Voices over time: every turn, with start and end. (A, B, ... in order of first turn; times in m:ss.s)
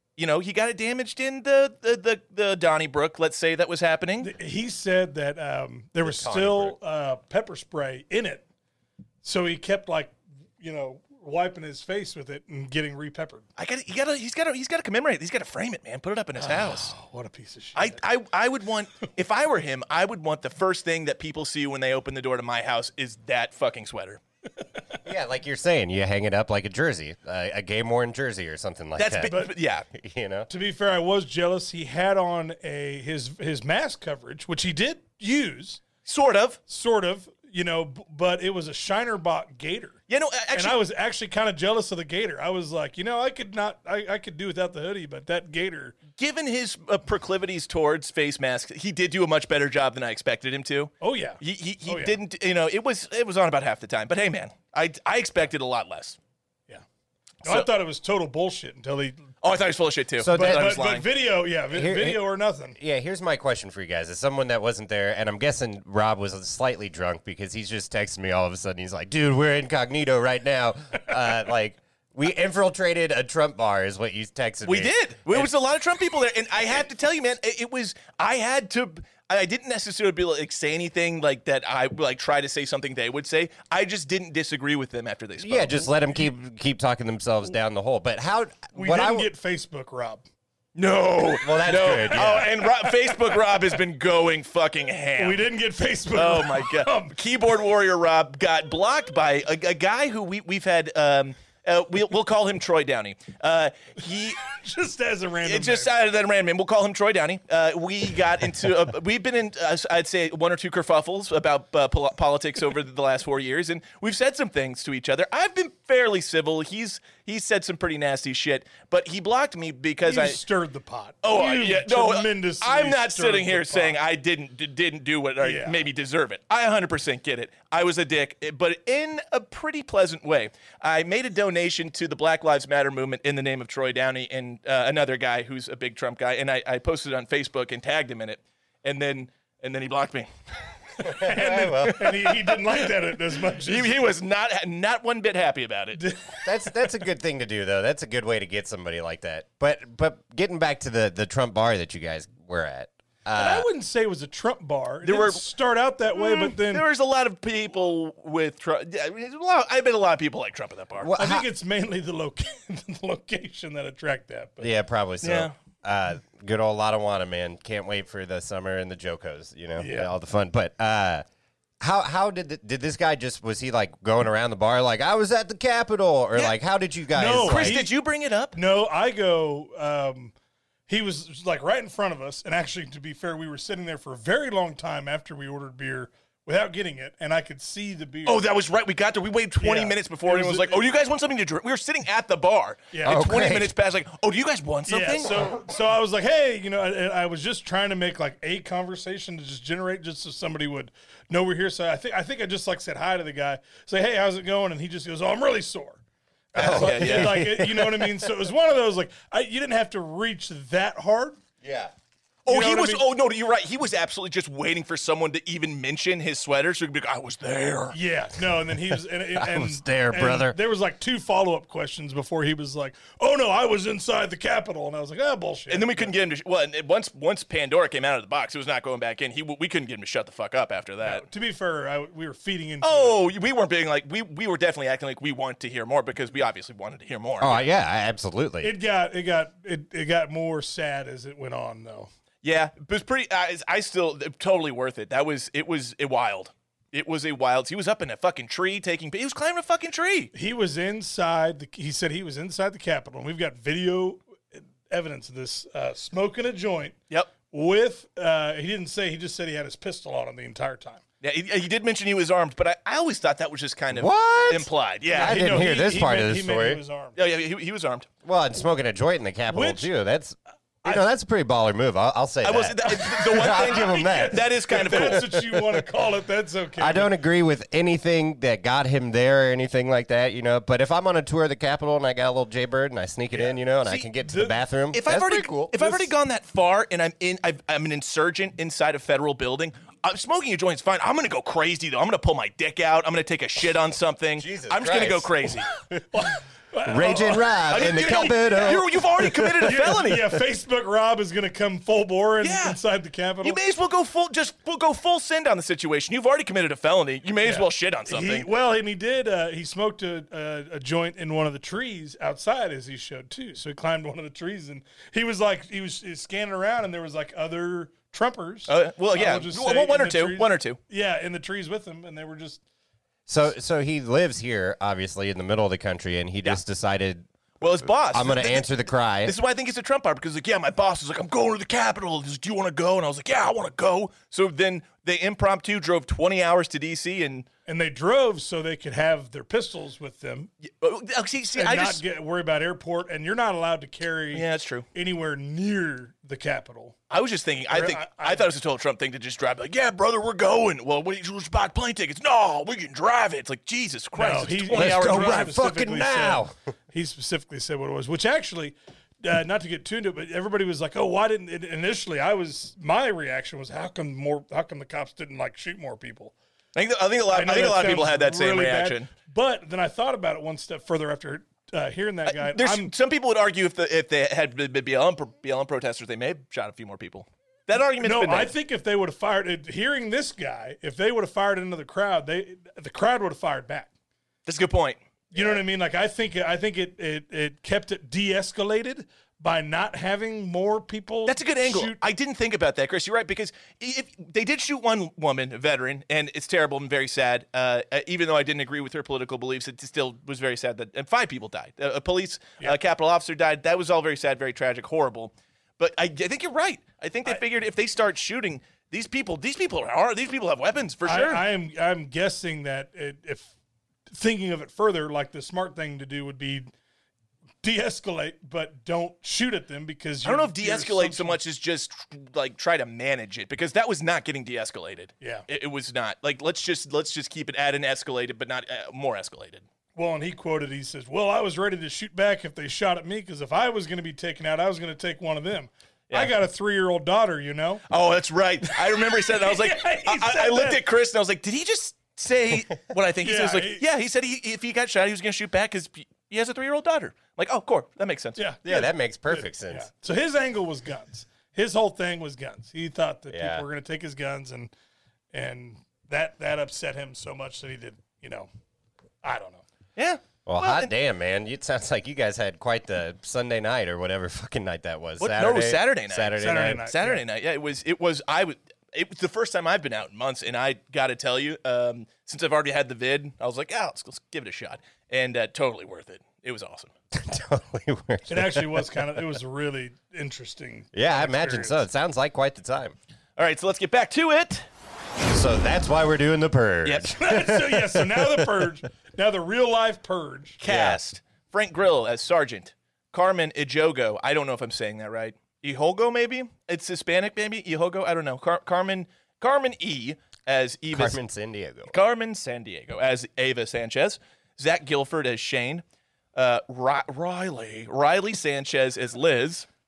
0:00.2-0:04.3 A
0:04.2-0:08.4 B
0:06.0-0:06.8 C
0:09.2-0:13.5 B
0:13.6-0:16.9 A
0:16.4-0:18.0 B
0:17.8-0:24.2 A
0:25.0-0:30.5 C
0:29.0-0:29.8 A
0:29.3-0:29.5 B
0:30.5-0:35.8 B
0:36.0-0:36.6 A
0:36.7-0:40.0 B
0:40.1-0:40.8 A
0:40.5-0:46.0 B
0:46.2-0:56.2 A
0:51.0-0:52.2 B
0:57.4-0:57.7 A
0:57.4-0:59.3 B
0:59.4-1:01.1 A
1:00.2-1:00.8 C
1:00.3-1:02.8 B
1:01.7-1:02.2 C
1:02.7-1:15.5 C
1:14.6-1:25.9 A
1:25.4-1:29.3 C
1:28.7-1:30.2 B
1:30.8-1:35.4 A
1:31.4-1:32.5 C
1:32.0-1:33.4 B
1:35.2-1:37.2 B
1:36.1-1:44.4 A
1:44.5-1:45.9 B
1:45.4-2:00.4 A
2:00.0-2:04.0 B
2:01.2-2:20.3 A
2:05.4-2:05.8 B
2:21.0-2:22.2 C
2:21.0-2:24.1 B
2:21.8-2:22.9 A
2:23.5-2:26.0 A
2:26.0-2:26.8 B
2:26.4-2:33.7 C
2:33.3-2:36.8 B
2:35.0-2:35.4 A
2:36.1-2:41.1 A
2:41.0-2:41.4 C
2:41.2-2:44.7 B
2:44.6-2:51.2 C
2:45.2-2:45.5 A
2:49.8-2:50.1 B
2:51.8-2:57.8 C
2:57.1-2:57.9 B
2:57.4-2:58.6 A
2:58.5-3:00.3 B
3:00.9-3:08.5 B
3:08.2-3:15.4 A
3:09.6-3:10.8 B
3:12.9-3:13.2 B
3:13.0-3:13.7 C
3:14.9-3:26.0 B
3:26.5-3:28.3 C
3:26.6-3:31.4 B
3:26.6-3:27.5 A
3:31.6-3:31.9 C
3:32.4-3:38.0 A
3:32.5-3:33.1 B
3:37.9-3:46.1 B
3:39.3-3:40.6 C
3:45.7-3:51.2 A
3:51.0-3:53.2 B
3:52.8-3:57.6 A
3:57.4-3:58.7 C
3:58.6-4:02.1 B
4:02.4-4:10.3 A
4:10.3-4:21.0 B
4:21.2-4:25.7 A
4:23.9-4:26.8 C
4:25.1-4:27.2 B
4:27.2-4:28.1 A
4:28.2-4:35.8 C
4:29.5-4:29.9 B
4:32.4-4:35.2 A
4:33.4-4:37.1 B
4:36.8-4:45.7 C
4:43.3-4:44.6 B
4:44.9-4:55.7 A
4:45.7-4:46.0 B
4:54.4-4:56.0 C
4:56.1-4:58.8 B
4:56.8-4:59.9 C
4:57.7-5:00.2 A
4:59.6-5:03.6 B
5:02.4-5:02.8 A
5:03.4-5:08.5 A
5:07.4-5:22.6 B
5:18.7-5:20.8 A
5:23.3-5:29.3 C
5:27.6-5:28.7 A
5:29.2-5:37.5 A
5:37.7-5:40.5 B
5:40.7-5:42.0 A
5:41.5-5:47.0 B
5:44.3-5:44.8 A
5:47.1-5:55.5 A
5:47.7-5:48.5 B
5:54.2-6:06.3 B
5:54.7-5:56.5 C
6:06.8-6:09.1 A
6:07.3-6:12.9 B
6:12.2-6:18.5 A
6:18.0-6:23.9 B
6:24.4-6:25.6 A
6:25.3-6:32.0 B
6:31.2-6:51.4 A
6:51.0-6:53.5 B
6:54.1-6:56.7 B
6:57.6-7:01.4 B
7:00.2-7:09.6 A
7:05.2-7:05.4 B
7:10.0-7:17.8 B
7:17.9-7:28.4 A
7:18.7-7:20.8 B
7:23.2-7:23.8 B
7:28.4-7:34.7 B
7:28.6-7:29.9 C
7:33.3-7:33.6 C
7:35.3-7:38.5 B
7:39.2-7:39.6 B
7:40.0-7:40.9 A
7:40.4-7:46.8 C
7:45.2-7:56.9 A
7:46.4-7:47.2 B
7:57.1-7:59.4 C
7:58.3-8:01.8 B
8:00.9-8:02.9 C
8:03.4-8:04.6 A
8:05.2-8:08.5 C
8:06.8-8:07.1 A
8:07.1-8:10.6 B
8:10.6-8:21.2 A
8:10.6-8:11.0 C
8:20.9-8:21.9 C
8:21.9-8:25.8 A
8:26.3-8:29.7 A